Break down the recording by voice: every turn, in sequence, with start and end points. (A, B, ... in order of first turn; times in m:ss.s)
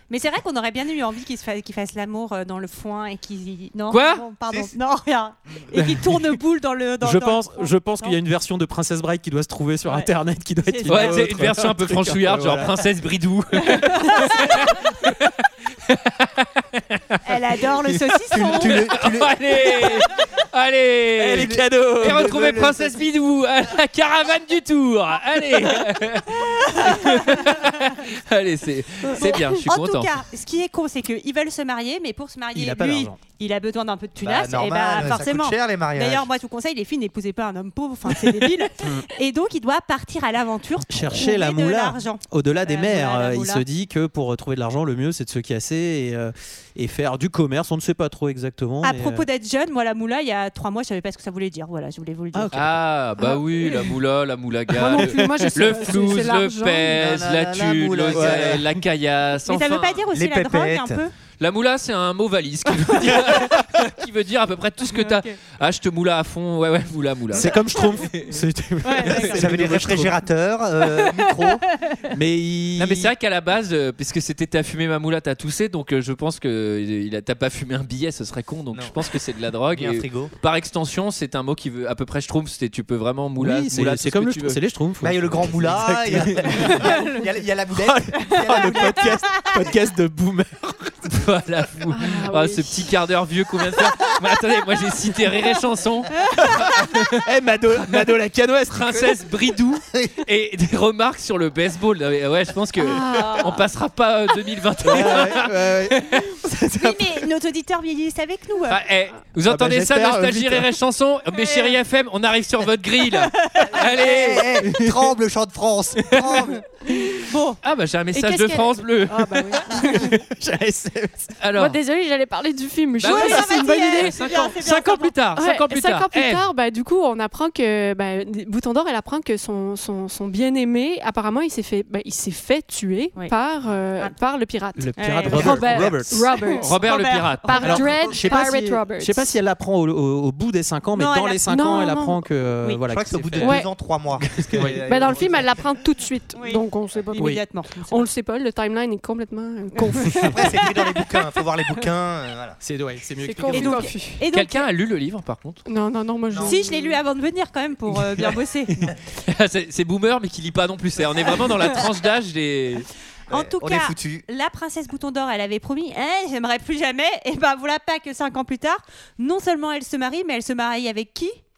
0:00.1-0:08.2 A
0:03.9-0:04.2 B
0:07.0-0:12.9 C
0:10.6-0:11.3 A
0:10.9-0:17.2 B
0:13.6-0:14.7 A
0:17.2-0:18.9 A
0:18.3-0:19.9 D
0:18.6-0:30.1 B
0:21.2-0:22.5 C
0:21.3-0:23.0 D
0:26.8-0:27.4 A
0:29.2-0:43.6 A
0:32.5-0:33.2 C
0:34.2-0:36.3 D
0:38.8-0:39.1 C
0:40.9-0:49.3 C
0:48.8-0:52.5 A
0:52.3-0:52.8 C
0:52.5-1:00.0 B
0:53.2-0:53.9 E
0:54.7-0:57.0 E
0:54.9-0:55.6 C
0:56.9-0:58.7 D
0:58.1-0:58.7 C
0:59.5-1:01.1 A
1:00.1-1:01.0 D
1:01.4-1:08.3 B
1:04.9-1:05.4 A
1:07.3-1:10.2 C
1:08.8-1:09.5 A
1:09.1-1:11.7 D
1:10.9-1:12.0 A
1:12.1-1:13.1 C
1:12.8-1:24.6 B
1:19.7-1:20.3 D
1:23.4-1:27.0 C
1:25.0-1:29.2 D
1:26.8-1:27.3 A
1:27.7-1:31.1 C
1:28.3-1:29.2 A
1:31.1-1:37.2 B
1:31.9-1:32.9 E
1:36.4-1:39.1 C
1:38.7-1:46.3 B
1:42.8-1:43.6 E
1:44.8-1:47.3 C
1:46.8-1:48.8 A
1:48.7-1:54.5 B
1:49.5-1:50.7 C
1:51.4-1:51.8 A
1:53.4-1:53.9 A
1:53.8-1:56.6 D
1:54.6-1:55.1 C
1:57.2-1:57.6 A
1:57.6-2:00.2 B
1:58.1-2:00.2 E
1:59.7-2:01.4 C
2:01.4-2:01.8 B
2:01.6-2:04.5 E
2:03.0-2:06.4 B
2:03.0-2:05.2 A
2:05.4-2:16.8 E
2:14.8-2:16.3 C
2:15.0-2:15.8 A
2:16.5-2:17.9 B
2:16.6-2:17.8 A
2:17.4-2:19.3 E
2:17.6-2:23.6 C
2:21.0-2:21.5 A
2:21.5-2:22.2 E
2:22.9-2:25.7 D
2:23.4-2:23.7 E
2:24.2-2:24.9 C
2:24.7-2:30.7 E
2:26.4-2:28.1 A
2:27.2-2:27.4 C
2:29.8-2:30.3 A
2:30.3-2:32.6 D
2:32.6-2:33.9 C
2:33.2-2:34.2 E
2:33.5-2:34.7 A
2:34.3-2:35.6 B
2:35.7-2:37.0 E
2:36.3-2:36.6 D
2:36.4-2:38.8 A
2:38.8-2:42.9 B
2:43.3-2:44.3 D
2:43.3-2:51.4 A